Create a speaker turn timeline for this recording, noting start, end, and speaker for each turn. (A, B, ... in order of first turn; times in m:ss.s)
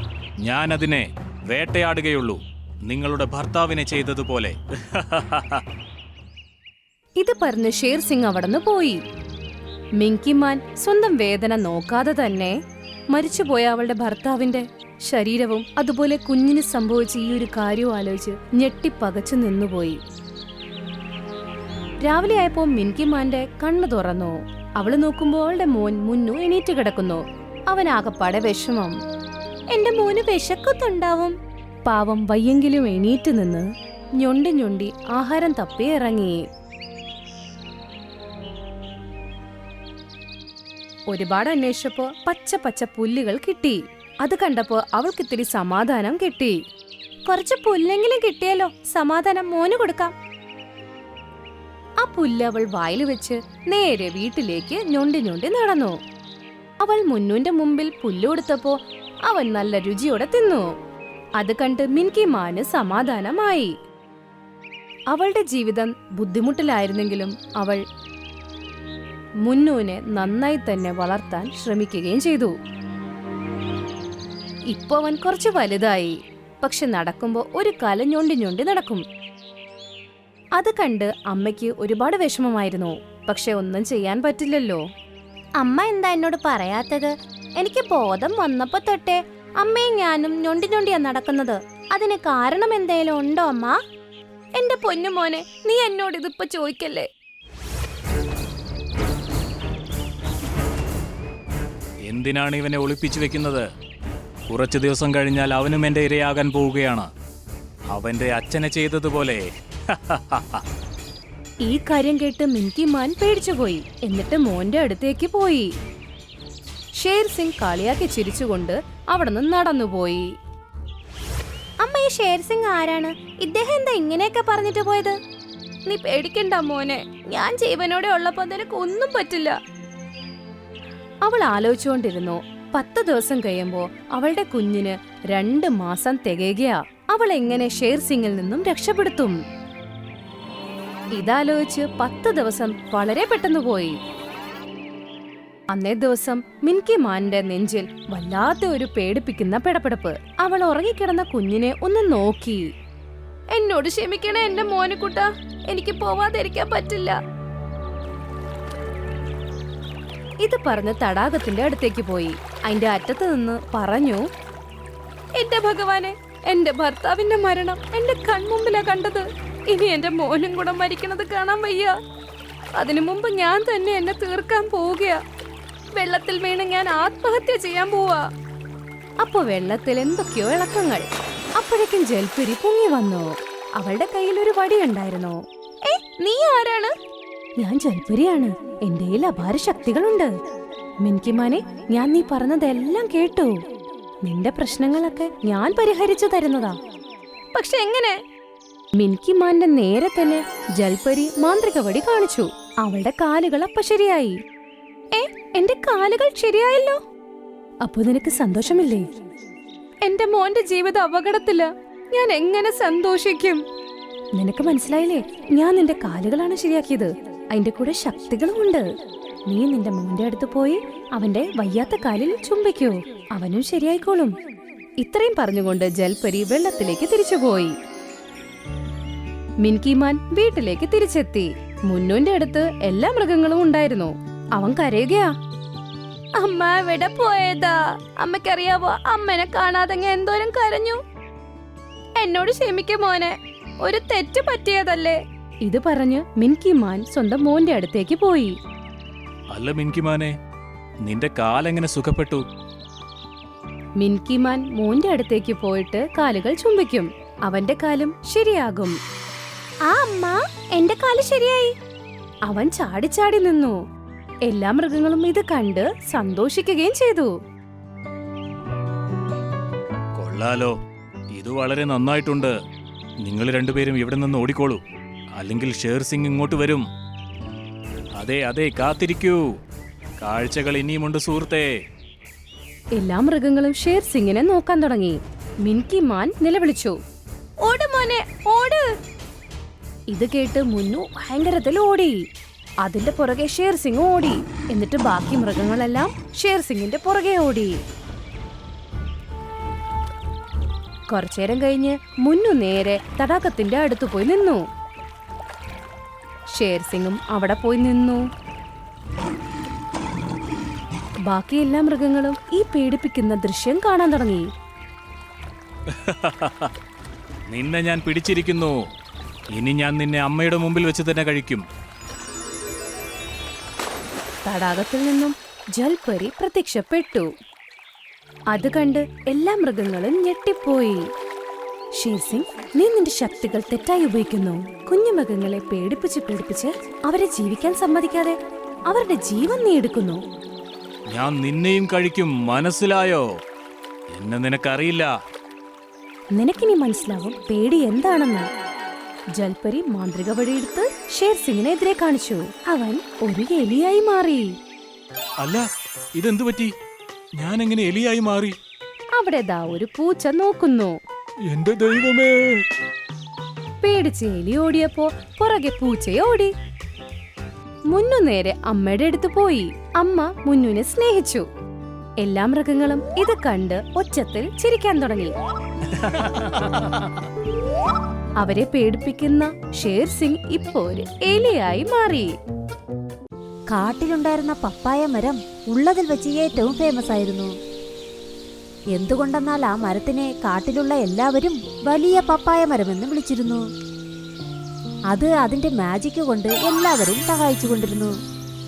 0:00.4-0:05.6 A
0:07.2-0:09.0 B
0:10.0-0:12.6 B
0:13.1-0:20.0 B
0:22.0-0:28.9 B
0:29.7-0:31.3 B
0:31.9-0:33.7 B
0:34.2-0:36.4 B
0:41.1-0:46.6 B
0:47.2-0:50.1 B
0:52.0-0:56.0 B
0:56.8-1:00.6 B
1:01.4-1:03.7 B
1:05.1-1:07.8 B
1:09.4-1:12.5 B
1:14.7-1:19.0 B
1:20.6-1:24.8 B
1:25.6-1:33.8 B
1:34.6-1:37.1 B
1:42.1-1:43.6 A
1:44.5-1:47.1 A
1:47.9-1:50.6 A
1:51.6-1:55.7 B
1:57.0-2:00.3 B
2:01.8-2:05.2 B
2:05.8-2:09.6 B
2:11.2-2:19.4 B
2:21.1-2:24.0 B
2:25.7-2:32.6 B
2:33.5-2:37.2 B
2:40.4-2:44.2 B
2:45.4-2:52.0 B
2:52.8-2:55.2 B
2:56.0-2:58.2 B
2:59.2-3:01.0 B
3:01.6-3:06.9 B
3:07.6-3:10.3 B
3:11.0-3:13.6 B
3:14.2-3:16.8 B
3:17.5-3:18.2 B
3:19.0-3:24.4 B
3:25.1-3:27.0 B
3:27.8-3:29.1 B
3:30.0-3:33.6 B
3:34.4-3:38.8 B
3:39.5-3:44.3 B
3:45.0-3:47.7 B
3:49.6-3:55.3 B
3:56.4-4:01.0 B
4:02.2-4:08.5 B
4:09.5-4:10.3 A
4:11.0-4:12.4 A
4:14.0-4:19.0 B
4:19.9-4:21.7 B
4:22.5-4:23.8 B
4:24.5-4:27.3 B
4:30.2-4:30.7 A
4:31.3-4:32.5 A
4:33.2-4:34.8 A
4:35.4-4:36.8 A
4:38.2-4:39.4 A
4:40.2-4:41.7 A
4:43.0-4:47.0 B
4:47.6-4:48.8 B
4:50.1-4:52.2 B
4:52.8-4:57.8 B
5:01.1-5:04.6 B
5:06.5-5:08.2 B
5:11.3-5:14.5 B
5:16.0-5:16.7 A
5:17.5-5:18.8 A
5:19.6-5:21.6 A
5:24.4-5:27.3 B
5:28.5-5:31.0 B
5:32.0-5:38.4 B
5:38.9-5:40.2 B
5:41.1-5:43.2 A
5:44.1-5:45.1 A
5:46.3-5:48.5 B
5:49.4-5:54.5 B
5:55.4-5:56.7 A
5:57.4-5:58.6 A
5:59.2-6:01.0 B
6:01.5-6:02.6 A
6:03.8-6:06.5 B
6:07.9-6:11.4 B
6:12.2-6:15.3 B
6:16.0-6:16.7 A
6:18.4-6:22.3 B
6:23.7-6:27.5 C
6:29.0-6:33.6 C
6:35.1-6:38.1 C